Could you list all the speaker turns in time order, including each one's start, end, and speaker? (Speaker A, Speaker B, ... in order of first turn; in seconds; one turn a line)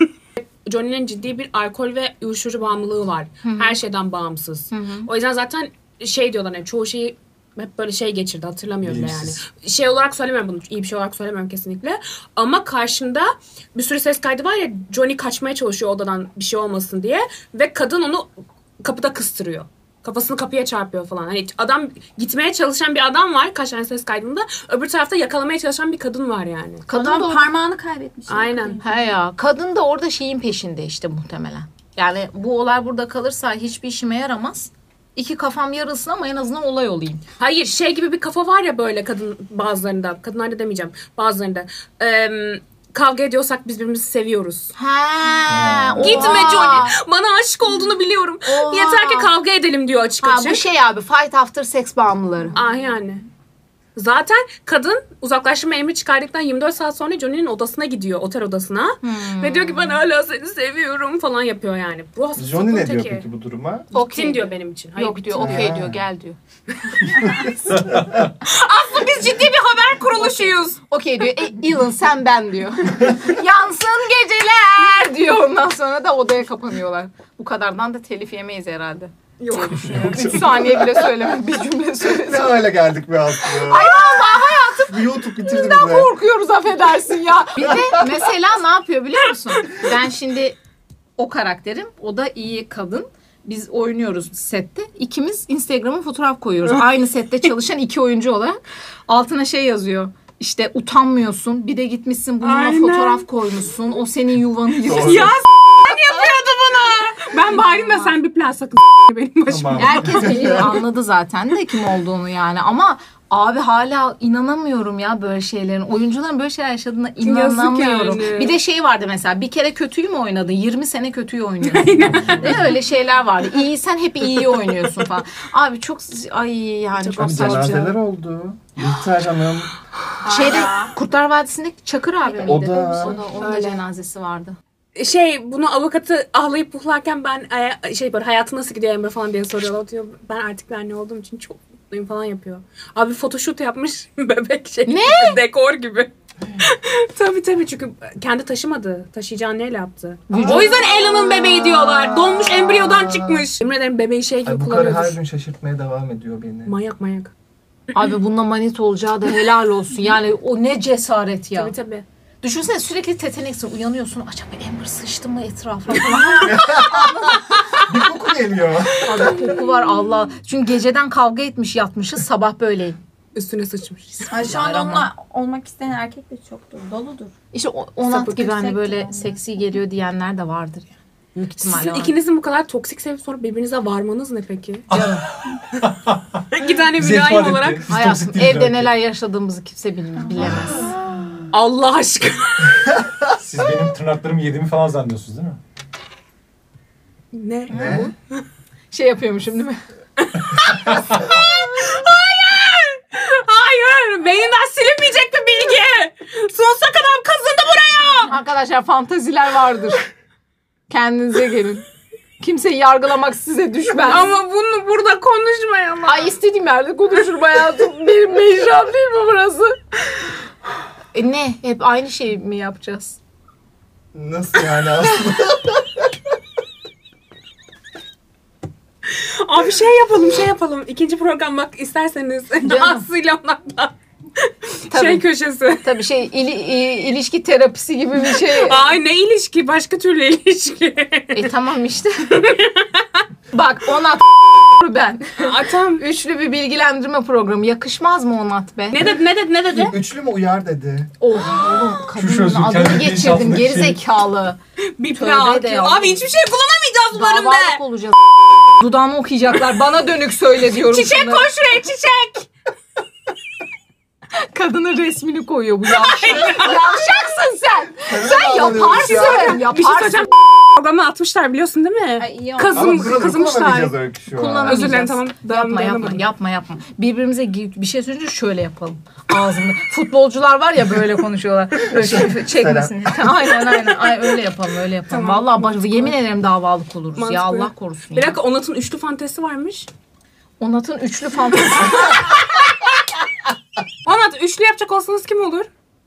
Speaker A: 0.5-18.3
Speaker B: 3.4-3.8
Speaker B: 4.7-5.1
Speaker C: 8.8-9.4
Speaker A: 18.8-26.9
Speaker B: 26.9-27.7
Speaker D: 26.9-29.0
Speaker A: 28.3-28.8
Speaker B: 28.8-37.2
Speaker A: 37.4-44.7
Speaker B: 44.8-46.9
Speaker E: 45.5-46.6
Speaker A: 46.0-50.6
Speaker B: 48.5-49.4
Speaker B: 50.2-52.6
Speaker A: 52.5-53.2
Speaker A: 54.0-63.2
Speaker B: 59.0-60.0
Speaker E: 62.4-63.9
Speaker B: 63.9-66.4
Speaker A: 63.9-65.7
Speaker E: 65.4-66.0
Speaker A: 66.9-67.5
Speaker C: 67.7-68.2
Speaker A: 68.4-70.8
Speaker B: 70.1-82.6
Speaker A: 79.4-80.1
Speaker E: 79.8-80.8
Speaker E: 82.2-84.0
Speaker B: 83.6-90.6
Speaker E: 84.9-86.1
Speaker B: 91.2-105.4
Speaker A: 102.4-103.2
Speaker E: 104.9-105.3
Speaker A: 105.0-110.7
Speaker B: 107.5-108.1
Speaker E: 109.5-110.7
Speaker B: 109.8-127.9
Speaker A: 117.2-118.5
Speaker A: 121.6-122.8
Speaker E: 122.2-122.5
Speaker A: 127.0-127.9
Speaker E: 127.2-129.7
Speaker D: 130.2-130.9
Speaker B: 130.2-134.6
Speaker E: 132.4-133.2
Speaker A: 132.8-133.8
Speaker D: 133.0-133.5
Speaker A: 135.0-155.2
Speaker B: 144.9-145.4
Speaker B: 150.3-151.2
Speaker E: 150.7-153.4
Speaker E: 154.4-156.7
Speaker A: 156.6-157.3
Speaker B: 157.9-161.7
Speaker A: 161.6-162.1
Speaker B: 162.4-167.5
Speaker E: 166.4-169.3
Speaker B: 169.0-173.0
Speaker A: 173.3-174.4
Speaker D: 174.3-177.3
Speaker B: 174.3-175.1
Speaker B: 177.5-182.1
Speaker D: 178.1-179.3
Speaker A: 181.6-184.9
Speaker C: 184.9-186.4
Speaker B: 184.9-185.2
Speaker A: 186.5-187.9
Speaker C: 187.0-188.9
Speaker B: 187.9-191.0
Speaker A: 191.5-192.7
Speaker C: 193.4-195.6
Speaker A: 197.3-198.4
Speaker E: 197.7-198.1
Speaker B: 197.7-198.1
Speaker B: 198.9-199.8
Speaker A: 200.2-208.3
Speaker B: 208.2-210.1
Speaker B: 210.9-211.8
Speaker B: 212.4-214.3
Speaker A: 213.9-216.3
Speaker B: 216.1-219.8
Speaker B: 221.1-223.2
Speaker E: 224.1-226.0
Speaker A: 229.1-235.9
Speaker B: 232.6-233.0
Speaker B: 234.9-235.2
Speaker B: 235.8-238.9
Speaker A: 238.2-241.4
Speaker B: 241.3-242.3
Speaker A: 242.3-243.2
Speaker B: 243.5-249.1
Speaker A: 245.4-246.0
Speaker A: 248.9-250.0
Speaker E: 249.7-251.1
Speaker B: 251.2-254.6
Speaker C: 252.1-254.0
Speaker A: 254.8-257.8
Speaker B: 255.1-256.2
Speaker B: 257.1-258.1
Speaker B: 258.8-261.5
Speaker A: 260.7-262.5
Speaker B: 264.5-270.3
Speaker A: 265.9-266.7
Speaker E: 268.1-269.6
Speaker A: 268.9-273.9
Speaker B: 272.2-273.1
Speaker E: 272.7-275.0
Speaker B: 274.3-288.4
Speaker A: 274.6-276.2
Speaker E: 281.9-283.1
Speaker A: 285.1-286.1
Speaker A: 287.1-289.9
Speaker B: 290.6-292.4
Speaker A: 292.0-292.9
Speaker A: 294.0-295.7